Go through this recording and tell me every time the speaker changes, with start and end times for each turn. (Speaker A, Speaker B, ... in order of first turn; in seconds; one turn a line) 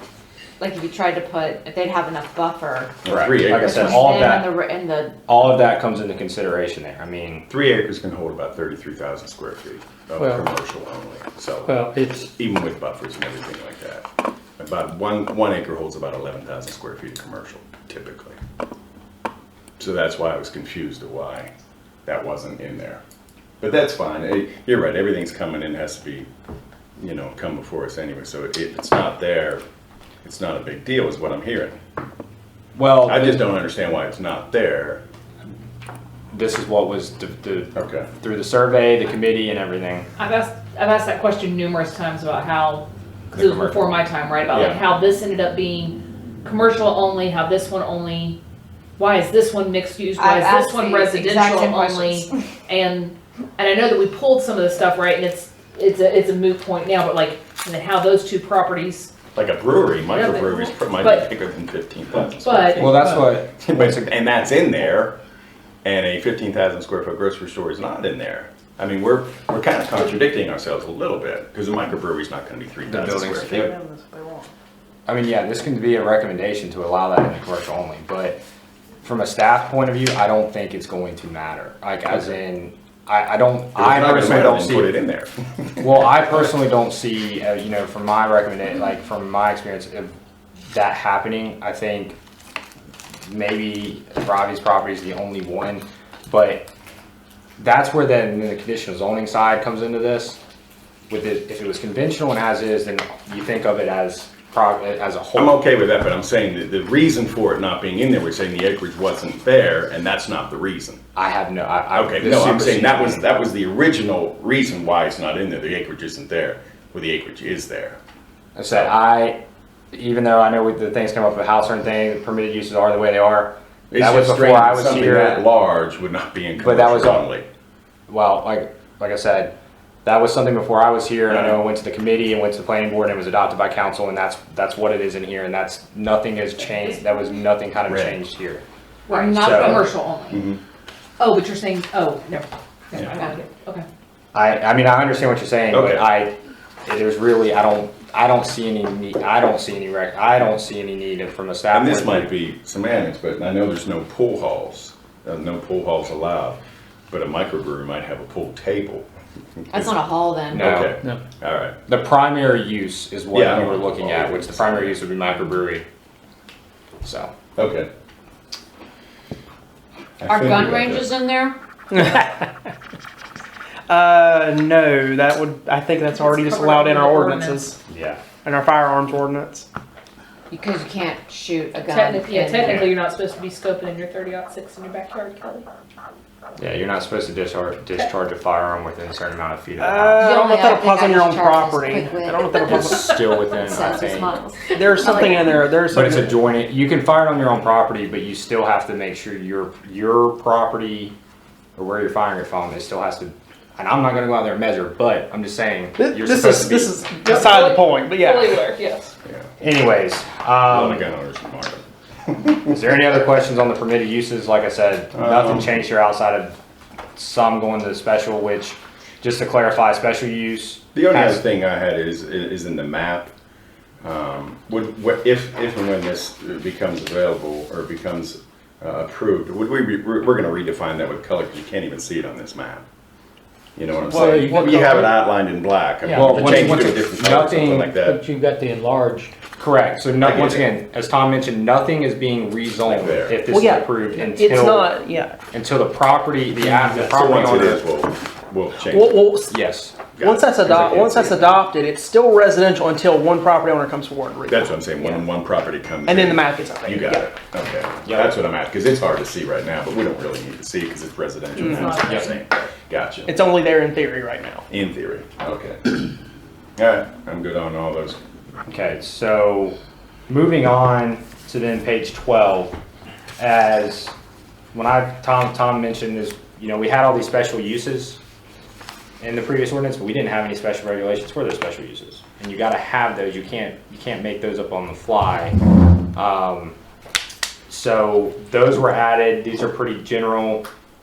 Speaker A: 0.6-3.0
Speaker B: 3.0-4.0
Speaker C: 3.1-4.5
Speaker A: 3.6-5.2
Speaker C: 5.3-7.5
Speaker B: 7.5-14.1
Speaker D: 10.2-10.5
Speaker D: 11.7-12.3
Speaker B: 14.6-18.4
Speaker B: 19.8-21.5
Speaker B: 22.1-23.0
Speaker B: 23.6-26.3
Speaker B: 27.0-29.6
Speaker B: 30.2-31.8
Speaker C: 32.8-33.5
Speaker B: 33.0-35.0
Speaker C: 36.3-40.1
Speaker B: 37.8-38.1
Speaker E: 40.2-48.4
Speaker C: 43.3-43.9
Speaker B: 44.5-44.8
Speaker E: 49.0-59.1
Speaker A: 50.2-52.5
Speaker B: 59.4-65.2
Speaker E: 60.1-61.3
Speaker E: 62.4-62.9
Speaker C: 62.8-64.1
Speaker B: 65.8-73.7
Speaker C: 72.9-73.7
Speaker F: 73.3-74.5
Speaker C: 75.1-78.4
Speaker C: 79.0-84.9
Speaker B: 83.8-86.2
Speaker C: 85.8-90.1
Speaker C: 90.7-92.2
Speaker C: 93.3-96.7
Speaker C: 97.6-100.4
Speaker C: 101.1-105.6
Speaker B: 105.4-111.0
Speaker C: 111.2-113.2
Speaker B: 111.9-118.0
Speaker C: 118.6-119.4
Speaker C: 119.9-125.5
Speaker B: 123.9-127.5
Speaker C: 126.6-127.3
Speaker C: 128.1-138.6
Speaker B: 131.3-131.6
Speaker B: 137.9-138.2
Speaker E: 139.1-140.5
Speaker A: 139.1-139.9
Speaker C: 139.4-139.8
Speaker B: 140.3-140.6
Speaker E: 141.2-143.8
Speaker C: 144.3-152.3
Speaker B: 145.7-146.1
Speaker B: 151.7-156.6
Speaker B: 157.1-159.1
Speaker B: 159.6-161.8
Speaker A: 159.7-160.7
Speaker C: 160.5-161.0
Speaker C: 161.9-165.8
Speaker B: 163.3-165.0
Speaker C: 167.0-167.3
Speaker B: 167.6-167.9
Speaker B: 170.2-171.1
Speaker A: 170.3-171.6
Speaker F: 171.9-172.5
Speaker F: 173.9-177.8
Speaker E: 176.1-177.7
Speaker C: 177.9-178.2
Speaker F: 178.4-179.7
Speaker A: 180.5-182.9
Speaker E: 181.9-185.7
Speaker C: 182.6-182.9
Speaker C: 186.6-190.3
Speaker F: 189.8-193.3
Speaker A: 190.2-195.6
Speaker C: 192.7-194.4
Speaker F: 194.7-196.4
Speaker C: 195.9-201.1
Speaker C: 201.8-207.0
Speaker F: 206.0-208.7
Speaker E: 207.2-209.2
Speaker C: 209.6-211.1
Speaker B: 210.7-212.6
Speaker C: 212.7-216.6
Speaker B: 215.1-215.8
Speaker C: 217.2-221.4
Speaker B: 220.9-223.3
Speaker B: 224.0-232.8
Speaker B: 233.8-238.2
Speaker D: 234.1-235.1
Speaker F: 234.1-235.0
Speaker D: 236.0-236.9
Speaker C: 236.1-237.9
Speaker D: 237.9-239.3
Speaker C: 239.6-244.9
Speaker B: 240.2-240.7
Speaker B: 242.8-243.5
Speaker F: 243.5-245.4
Speaker C: 245.5-247.8
Speaker D: 246.6-247.1
Speaker B: 247.0-249.2
Speaker F: 248.8-249.5
Speaker C: 249.5-250.0
Speaker B: 250.2-251.6
Speaker F: 250.2-255.1
Speaker B: 254.5-263.4
Speaker F: 256.1-257.3
Speaker C: 258.1-258.4
Speaker E: 261.6-262.7
Speaker F: 261.6-261.9
Speaker C: 262.0-262.3
Speaker F: 263.3-264.6
Speaker B: 264.7-266.1
Speaker B: 266.8-268.2
Speaker C: 268.7-269.8
Speaker C: 270.3-272.8
Speaker C: 273.4-274.1
Speaker C: 274.7-278.2
Speaker C: 279.2-285.6
Speaker C: 286.1-286.8
Speaker C: 287.7-290.7